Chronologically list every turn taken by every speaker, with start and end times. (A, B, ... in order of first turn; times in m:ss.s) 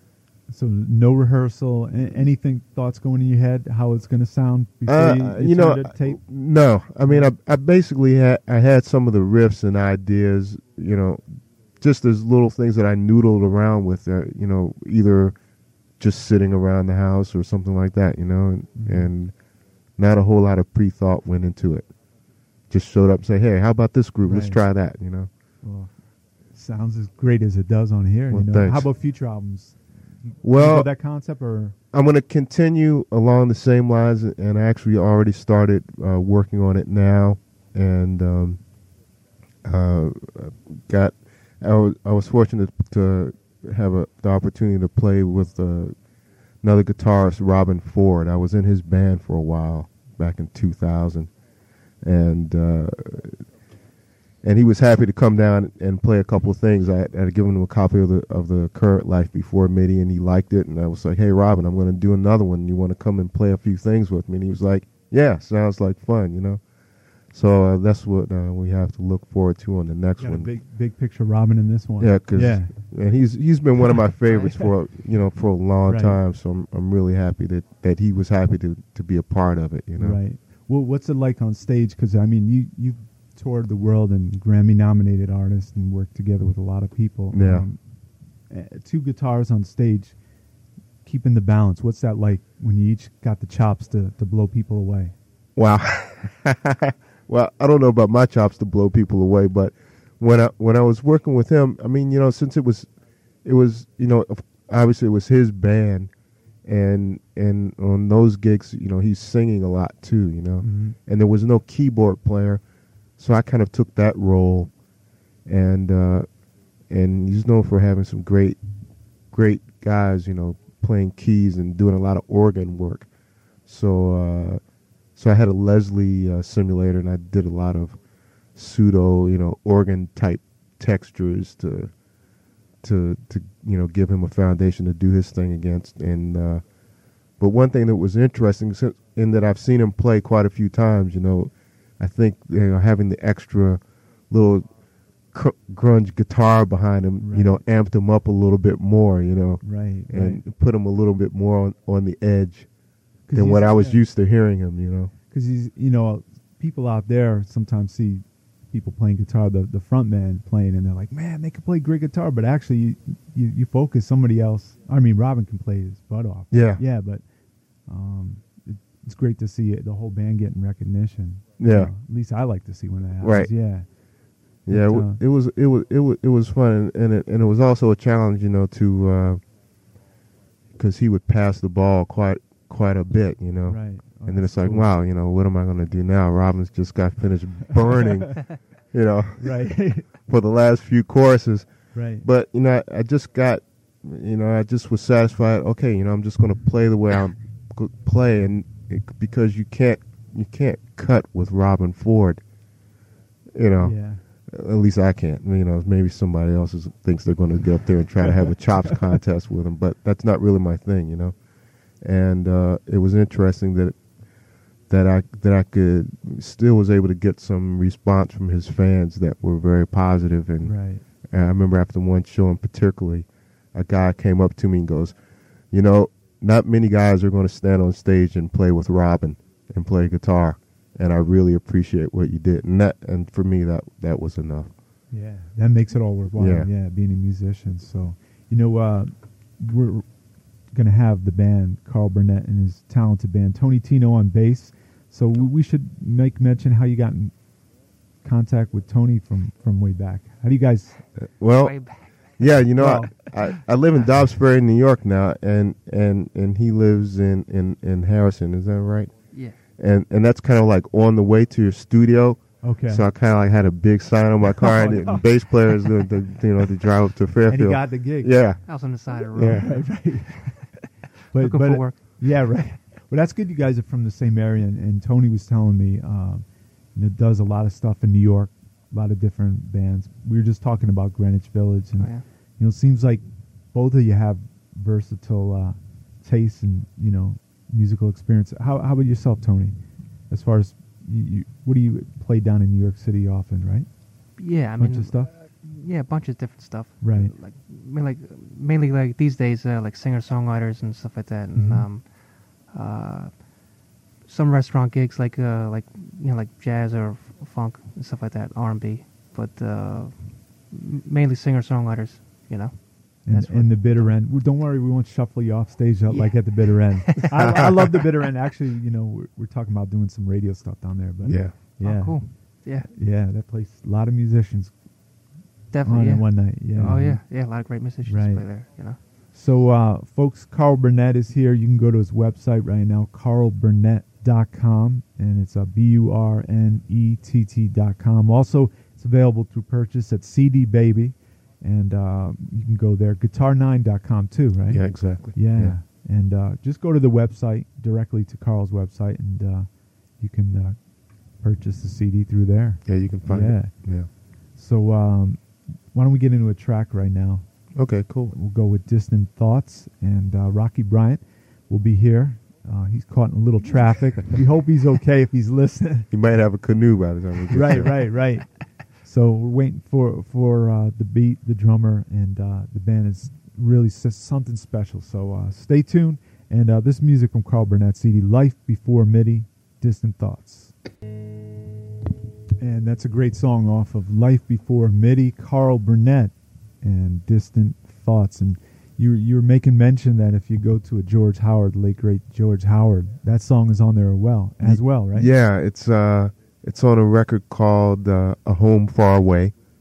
0:00.5-0:06.2 A
0:04.9-0:11.2 B
0:07.0-0:07.3 A
0:11.8-0:15.4 B
0:16.0-0:19.3 B
0:18.8-0:19.1 A
0:20.0-0:21.9 B
0:22.7-0:25.3 B
0:24.2-0:24.6 A
0:25.6-0:25.9 A
0:26.5-0:29.8 A
0:28.3-0:28.9 B
0:30.4-0:31.8 A
0:30.4-0:30.9 B
0:31.9-0:38.6 B
0:39.6-0:46.0 B
0:46.6-0:51.3 B
0:52.0-0:53.4 B
0:54.4-1:06.6 B
1:07.3-1:10.5 B
1:10.2-1:12.7 A
1:12.0-1:20.2 B
1:15.8-1:16.2 A
1:20.0-1:27.8 A
1:27.3-1:27.7 B
1:28.5-1:30.2 A
1:31.0-1:35.1 A
1:35.6-1:42.9 B
1:43.4-1:46.1 B
1:46.6-1:52.6 B
1:50.6-1:51.0 A
1:53.2-1:54.7 B
1:55.5-1:56.3 B
1:56.9-1:58.6 B
1:59.3-2:03.1 B
2:03.7-2:04.6 B
2:05.2-2:08.0 B
2:08.6-2:11.9 B
2:12.8-2:16.6 B
2:17.4-2:24.7 B
2:25.3-2:32.7 B
2:27.2-2:27.6 A
2:29.6-2:30.4 A
2:33.3-2:34.0 A
2:33.3-2:35.1 B
2:35.3-2:47.2 A
2:46.5-2:46.8 B
2:47.9-2:53.9 A
2:51.6-2:51.9 B
2:53.2-2:53.5 B
2:54.7-2:59.4 B
2:54.7-2:55.2 A
3:00.8-3:11.7 B
3:03.7-3:04.9 A
3:09.4-3:10.1 A
3:11.9-3:12.3 A
3:12.2-3:22.4 B
3:23.6-3:24.0 B
3:23.8-3:24.2 A
3:24.5-3:31.4 B
3:32.0-3:34.0 B
3:34.9-3:40.7 B
3:40.6-3:41.0 A
3:41.3-3:45.2 B
3:45.7-3:54.7 B
3:55.1-4:00.1 A
3:56.4-3:56.7 B
4:00.7-4:07.4 A
4:08.2-4:11.0 A
4:11.2-4:11.8 B
4:11.6-4:12.7 C
4:12.4-4:19.1 B
4:12.8-4:13.1 A
4:19.3-4:19.6 C
4:19.8-4:28.7 B
4:22.6-4:23.0 A
4:24.7-4:25.1 A
4:27.5-4:28.4 A
4:28.7-4:30.7 C
4:29.3-4:29.7 B
4:29.5-4:30.5 A
4:31.3-4:36.4 A
4:31.3-4:32.6 C
4:37.0-4:49.8 A
4:42.0-4:42.2 C
4:50.3-4:53.9 A
4:54.4-5:14.1 C
4:54.8-4:55.3 A
4:57.0-4:57.3 A
5:01.6-5:01.9 A
5:13.2-5:24.7 A
5:16.1-5:17.3 C
5:21.2-5:21.6 B
5:21.8-5:22.9 C
5:25.7-5:29.0 C
5:25.8-5:27.5 A
5:28.0-5:50.8 A
5:44.7-5:45.8 B
5:51.4-5:57.5 A
5:52.9-5:54.1 B
5:57.8-5:58.4 B
5:58.3-6:06.1 A
6:06.1-6:08.1 B
6:07.5-6:20.8 A
6:22.6-6:35.3 A
6:34.6-6:39.5 B